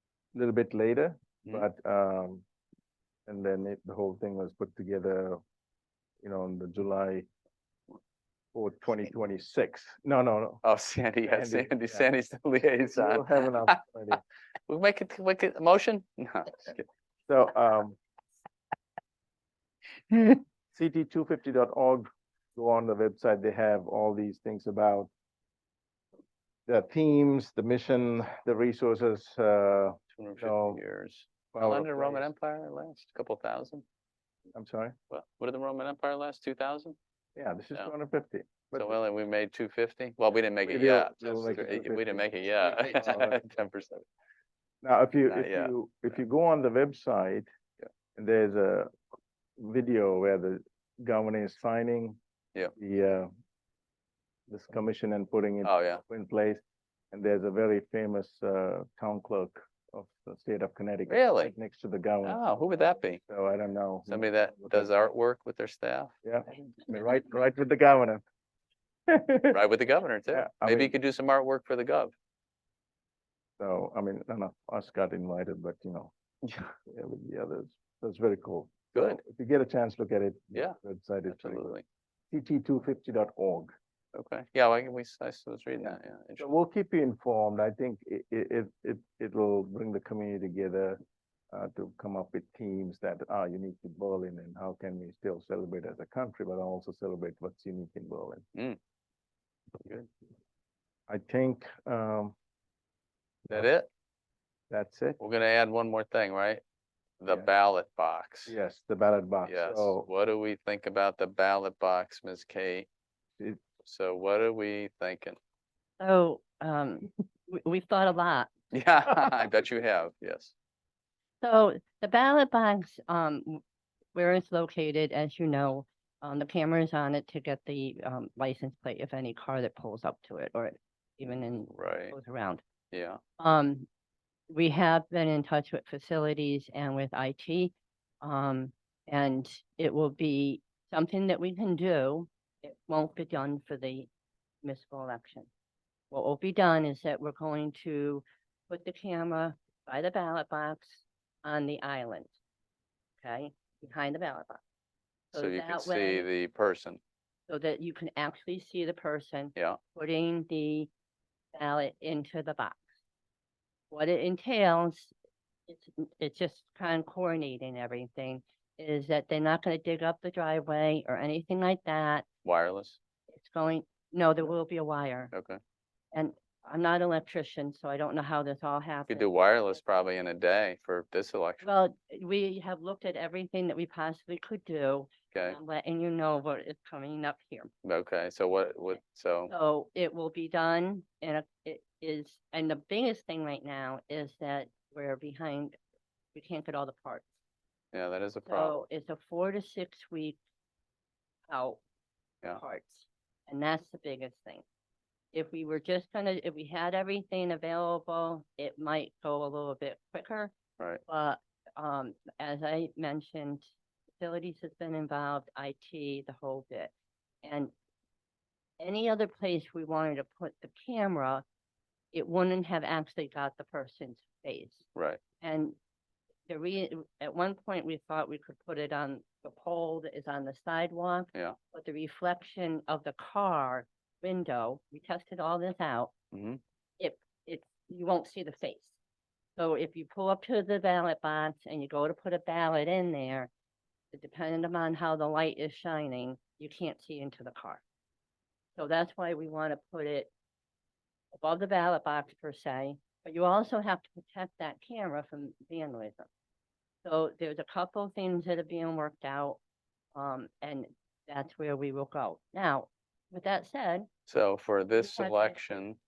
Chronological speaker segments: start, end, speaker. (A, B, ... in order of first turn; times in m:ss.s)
0:00.3-0:02.5 A
0:03.3-0:05.4 A
0:06.2-0:07.3 A
0:08.5-0:10.6 A
0:10.6-0:13.8 B
0:11.2-0:12.1 A
0:12.9-0:14.2 A
0:14.7-0:16.8 B
0:17.3-0:18.0 A
0:20.7-0:25.1 A
0:26.7-0:30.8 A
0:30.2-0:33.8 B
0:31.5-0:32.3 A
0:34.5-0:35.0 A
0:35.1-0:37.0 B
0:37.4-0:39.0 A
0:38.7-0:44.1 B
0:40.6-0:43.4 A
0:44.8-0:47.5 A
0:45.3-0:46.2 B
0:48.2-0:49.0 A
0:49.6-0:52.2 A
0:52.7-0:53.3 A
0:54.5-1:02.4 A
0:55.6-0:56.0 B
1:01.1-1:01.5 B
1:02.2-1:03.2 B
1:03.3-1:04.9 A
1:04.1-1:06.1 B
1:06.2-1:08.2 A
1:09.1-1:09.6 A
1:09.5-1:12.1 B
1:10.3-1:10.9 A
1:13.6-1:16.1 A
1:16.9-1:21.8 A
1:21.3-1:21.8 B
1:22.3-1:23.7 A
1:24.1-1:26.5 B
1:25.8-1:31.0 A
1:31.5-1:38.4 A
1:39.8-1:40.1 B
1:41.1-1:42.4 A
1:43.5-1:43.9 B
1:44.7-1:45.2 A
1:45.2-1:46.6 B
1:47.2-1:48.5 B
1:48.5-1:50.1 A
1:49.4-1:52.9 B
1:53.4-1:53.6 A
1:53.8-1:55.4 B
1:56.0-1:58.5 C
1:58.7-2:00.5 B
2:01.4-2:03.6 C
2:04.2-2:12.6 C
2:11.7-2:12.2 B
2:12.9-2:13.2 B
2:13.4-2:13.9 C
2:14.5-2:24.1 C
2:24.6-2:25.5 C
2:26.1-2:32.3 C
2:33.2-2:34.6 C
2:35.3-2:36.3 C
2:35.3-2:37.0 B
2:37.5-2:40.9 C
2:41.5-2:42.8 C
2:43.9-2:45.1 C
2:45.7-2:52.3 C
2:52.4-2:53.0 B
2:53.3-2:55.3 C
2:55.3-2:55.6 B
2:56.1-2:59.3 C
2:59.1-3:01.7 B
3:01.6-3:07.7 C
3:05.3-3:05.6 B
3:07.8-3:09.5 B
3:09.5-3:15.8 C
3:16.3-3:17.3 C
3:17.9-3:18.8 B
3:18.5-3:20.4 C
3:21.5-3:21.8 C
3:22.5-3:24.6 C
3:25.3-3:30.5 C
3:31.1-3:36.9 C
3:37.4-3:37.7 C
3:38.8-3:41.4 C
3:42.1-3:44.9 C
3:45.0-3:45.2 B
3:45.4-3:45.8 C
3:46.5-3:56.1 C
3:56.3-3:56.6 B
3:57.0-3:59.0 C
3:59.6-4:03.5 C
4:04.1-4:07.8 C
4:08.8-4:10.3 C
4:11.4-4:16.3 C
4:17.0-4:19.6 C
4:20.2-4:24.1 C
4:24.3-4:26.0 B
4:25.0-4:25.6 C